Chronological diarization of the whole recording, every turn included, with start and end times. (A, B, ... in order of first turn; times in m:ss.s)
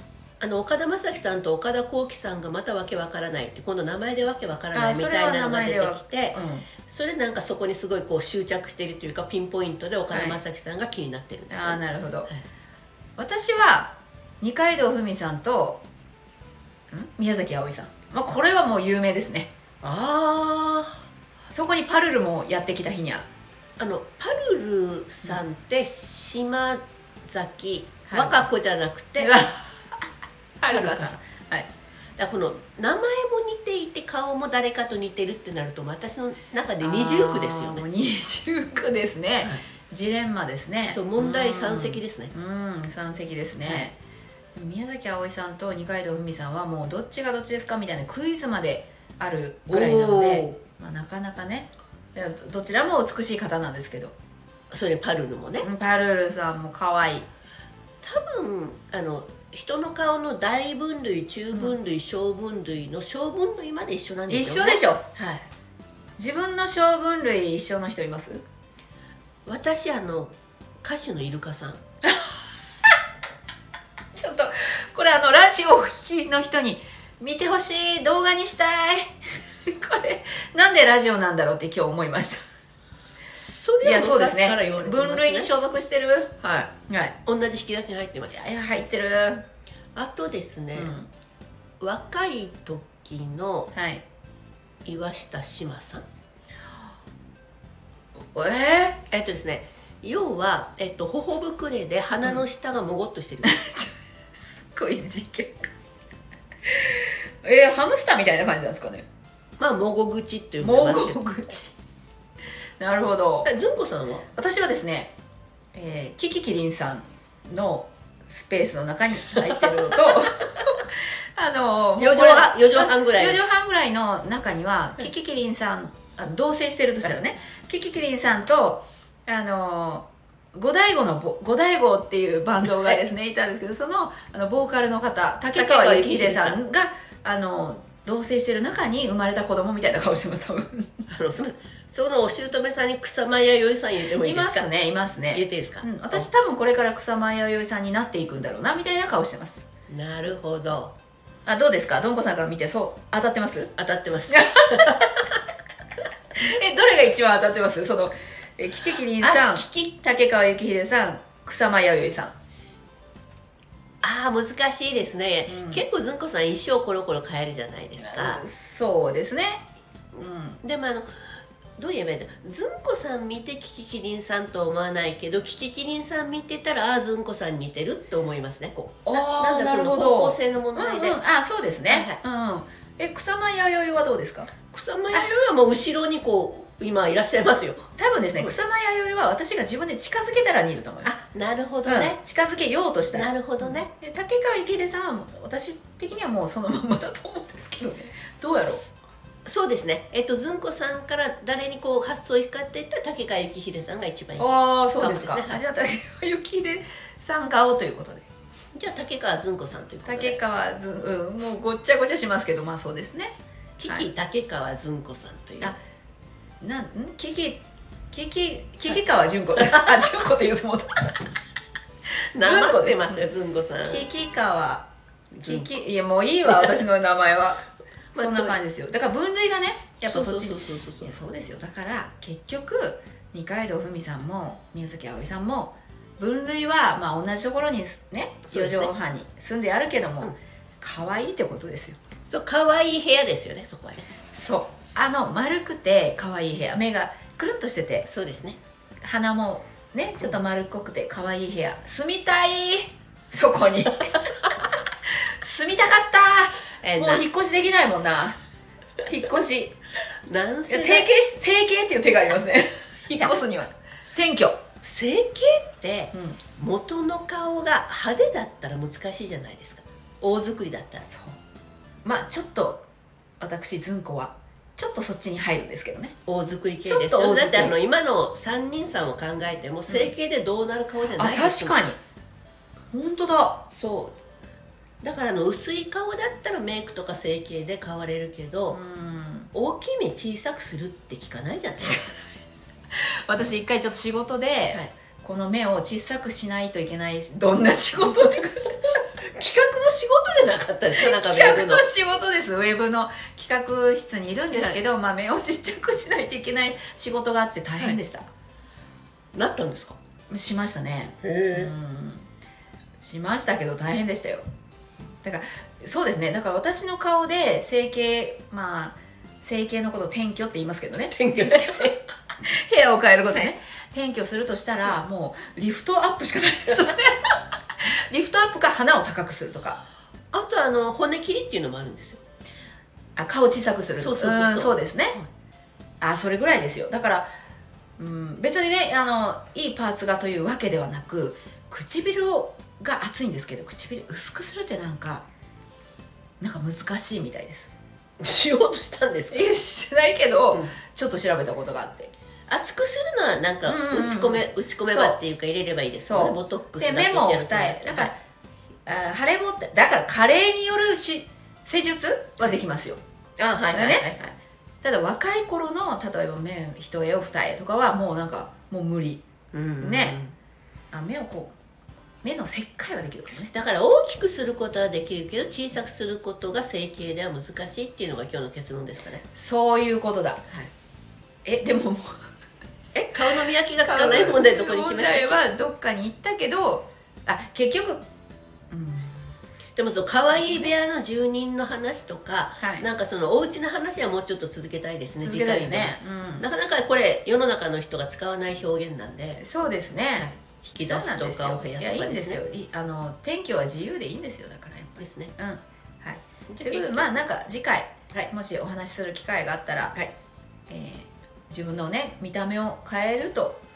0:00.4-0:12.4 A
0:04.7-0:06.7 B
0:10.1-0:10.4 B
0:11.5-0:12.3 B
0:13.2-0:15.8 B
0:16.9-0:19.5 B
0:19.8-0:21.0 A
0:21.5-0:23.2 B
0:23.8-0:29.3 A
0:28.1-0:28.5 B
0:29.2-0:30.0 B
0:30.6-0:31.7 B
0:30.7-0:31.2 A
0:32.2-0:37.8 A
0:36.8-0:44.0 B
0:40.9-0:42.3 A
0:43.6-0:43.9 A
0:44.5-0:54.1 B
0:49.7-0:50.6 A
0:54.7-0:55.7 A
0:55.6-0:57.3 B
0:58.0-1:05.5 A
1:04.3-1:05.0 B
1:06.2-1:08.4 B
1:09.5-1:11.8 A
1:12.1-1:12.4 B
1:14.2-1:22.4 B
1:23.4-1:25.5 A
1:23.8-1:26.3 B
1:26.4-1:26.7 A
1:26.9-1:27.2 B
1:27.2-1:28.5 A
1:28.3-1:29.4 B
1:30.0-1:30.9 A
1:30.7-1:31.1 B
1:31.8-1:33.7 A
1:33.7-1:34.0 B
1:34.8-1:36.0 A
1:38.3-1:39.0 B
1:39.1-1:43.6 A
1:43.4-1:45.7 B
1:46.7-1:49.1 B
1:49.6-1:51.2 A
1:50.6-1:51.7 B
1:52.8-1:53.5 B
1:53.4-1:54.2 A
1:54.3-1:55.1 B
1:55.7-2:21.0 B
1:59.4-2:00.1 A
2:02.0-2:03.4 A
2:12.7-2:13.0 A
2:15.5-2:16.6 A
2:21.1-2:24.7 A
2:24.2-2:29.6 B
2:25.3-2:26.3 A
2:29.9-2:30.9 A
2:31.5-2:33.7 B
2:33.8-2:35.2 A
2:34.3-2:35.0 B
2:36.3-2:42.3 B
2:39.2-2:39.9 A
2:44.0-2:48.4 A
2:45.5-2:45.8 B
2:48.0-2:50.6 B
2:50.6-3:01.2 A
2:59.0-3:04.5 B
3:01.9-3:02.2 A
3:04.7-3:08.5 A
3:08.0-3:11.1 B
3:11.0-3:12.2 A
3:11.8-3:18.9 B
3:13.1-3:13.9 A
3:19.5-3:25.6 A
3:24.4-3:28.2 B
3:28.7-3:30.4 A
3:30.0-3:33.3 B
3:33.8-3:35.7 A
3:36.6-3:41.2 B
3:39.6-3:40.2 A
3:42.3-3:44.1 A
3:42.4-3:43.2 B
3:43.9-3:47.6 B
3:45.4-3:45.7 A
3:46.4-3:46.8 A
3:48.1-3:48.6 A
3:48.2-4:02.0 B
3:50.0-3:51.1 A
3:58.5-3:58.9 A
4:02.3-4:04.0 A
4:04.3-4:08.1 B
4:08.0-4:08.6 A
4:09.0-4:14.3 B
4:15.1-4:18.4 B
4:16.8-4:17.2 A
4:19.0-4:19.8 B
4:20.2-4:21.1 A
4:20.7-4:24.6 B
4:24.8-4:31.0 A
4:26.1-4:26.4 B
4:31.0-4:31.4 B
4:32.0-4:32.8 B
4:33.4-4:36.1 B
4:36.3-4:41.8 A
4:36.8-4:37.8 B
4:41.2-4:42.0 B
4:42.9-4:43.6 B
4:43.7-4:44.2 A
4:45.0-4:48.8 A
4:48.7-4:49.5 B
4:49.5-4:52.1 A
4:51.9-4:52.2 B
4:52.9-4:59.0 B
4:58.8-5:01.9 A
5:01.0-5:08.2 B
5:04.5-5:04.8 A
5:09.3-5:10.0 A
5:10.3-5:12.3 B
5:11.2-5:11.7 A
5:13.0-5:14.5 B
5:15.2-5:29.8 B
5:21.1-5:22.0 A
5:30.3-5:32.2 A
5:33.2-5:35.2 B
5:34.0-5:35.2 A
5:36.0-5:37.3 B
5:38.0-5:45.2 B
5:46.4-5:47.7 B
5:48.2-5:49.5 A
5:49.3-5:52.1 B
5:52.5-5:58.1 A
5:53.6-5:55.2 B
5:56.0-5:58.2 B
5:58.9-6:03.0 B
6:03.4-6:04.4 A
6:03.7-6:04.1 B
6:04.8-6:09.2 B
6:09.5-6:10.3 A
6:09.8-6:10.2 B
6:10.9-6:11.5 B
6:12.2-6:13.5 B
6:13.5-6:19.2 A
6:19.3-6:20.4 B
6:21.4-6:22.3 B
6:23.0-6:25.4 A
6:23.8-6:28.0 B
6:28.7-6:29.3 B
6:29.8-6:39.4 A
6:30.3-6:30.7 B
6:32.6-6:32.9 B
6:35.2-6:36.5 B
6:39.4-6:50.0 B
6:40.2-6:42.4 A
6:45.0-6:45.3 A
6:46.5-6:47.2 A
6:50.7-6:53.6 B